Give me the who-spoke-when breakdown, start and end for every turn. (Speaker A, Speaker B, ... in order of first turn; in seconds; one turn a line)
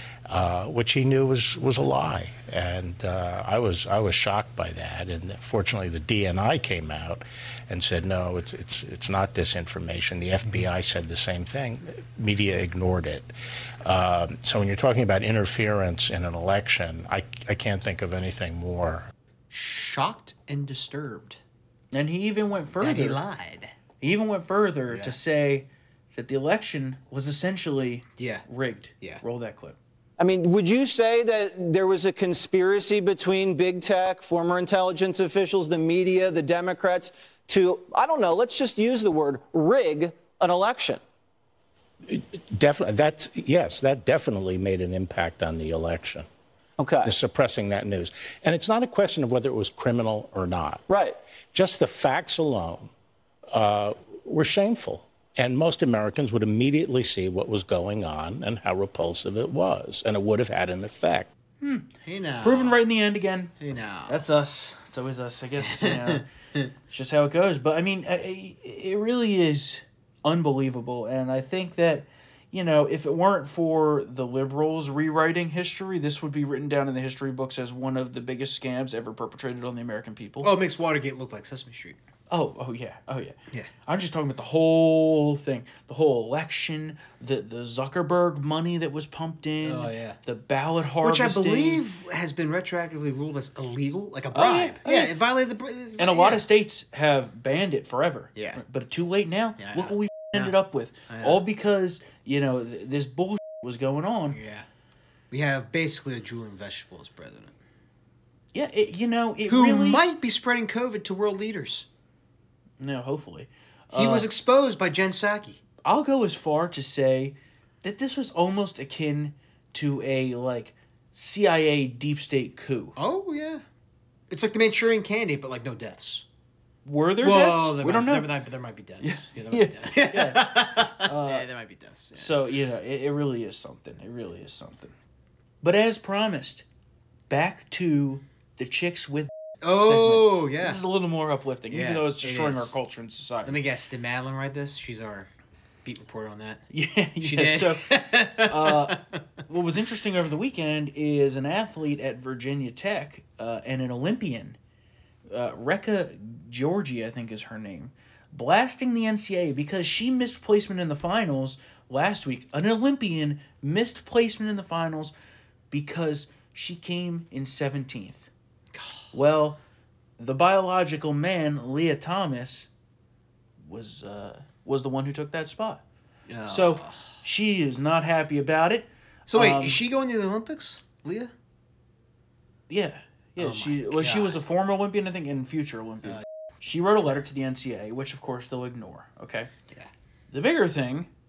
Speaker A: 0.3-13.3
Speaker A: 13.8-19.1
Speaker B: 19.5-21.4
Speaker C: 21.9-23.2
Speaker B: 22.8-23.7
Speaker C: 24.0-29.8
Speaker B: 24.9-25.2
Speaker B: 28.2-28.5
Speaker D: 30.2-41.0
Speaker A: 42.1-46.3
Speaker D: 46.8-47.1
Speaker A: 47.0-50.8
Speaker D: 50.9-51.2
Speaker A: 51.5-52.9
Speaker A: 53.5-61.3
Speaker C: 61.6-61.9
Speaker B: 62.0-62.8
Speaker C: 62.4-63.5
Speaker B: 63.6-64.2
Speaker C: 64.1-66.2
Speaker B: 65.6-66.7
Speaker C: 66.9-80.5
Speaker B: 80.4-82.0
Speaker C: 82.3-91.8
Speaker B: 89.6-90.2
Speaker B: 91.0-96.5
Speaker C: 94.3-95.1
Speaker C: 96.0-104.4
Speaker B: 98.3-98.6
Speaker B: 99.6-100.5
Speaker B: 101.1-101.4
Speaker B: 104.3-104.7
Speaker B: 105.3-107.6
Speaker C: 108.5-110.0
Speaker B: 109.5-111.9
Speaker C: 112.8-114.3
Speaker B: 113.9-115.6
Speaker C: 115.8-123.0
Speaker B: 123.0-123.6
Speaker B: 124.3-126.3
Speaker C: 126.8-128.3
Speaker B: 127.2-132.4
Speaker C: 129.0-131.5
Speaker C: 132.1-134.9
Speaker C: 135.6-136.7
Speaker C: 137.3-143.6
Speaker B: 139.6-140.8
Speaker B: 141.7-142.7
Speaker B: 143.4-145.3
Speaker B: 145.8-146.6
Speaker C: 146.7-154.6
Speaker B: 147.2-149.2
Speaker C: 155.3-165.1
Speaker C: 165.7-168.3
Speaker B: 168.7-169.1
Speaker C: 169.1-169.6
Speaker C: 170.2-172.7
Speaker C: 173.6-175.8
Speaker B: 176.3-177.2
Speaker C: 176.5-179.8
Speaker B: 179.3-181.3
Speaker C: 182.7-189.5
Speaker B: 183.4-184.4
Speaker C: 190.3-191.1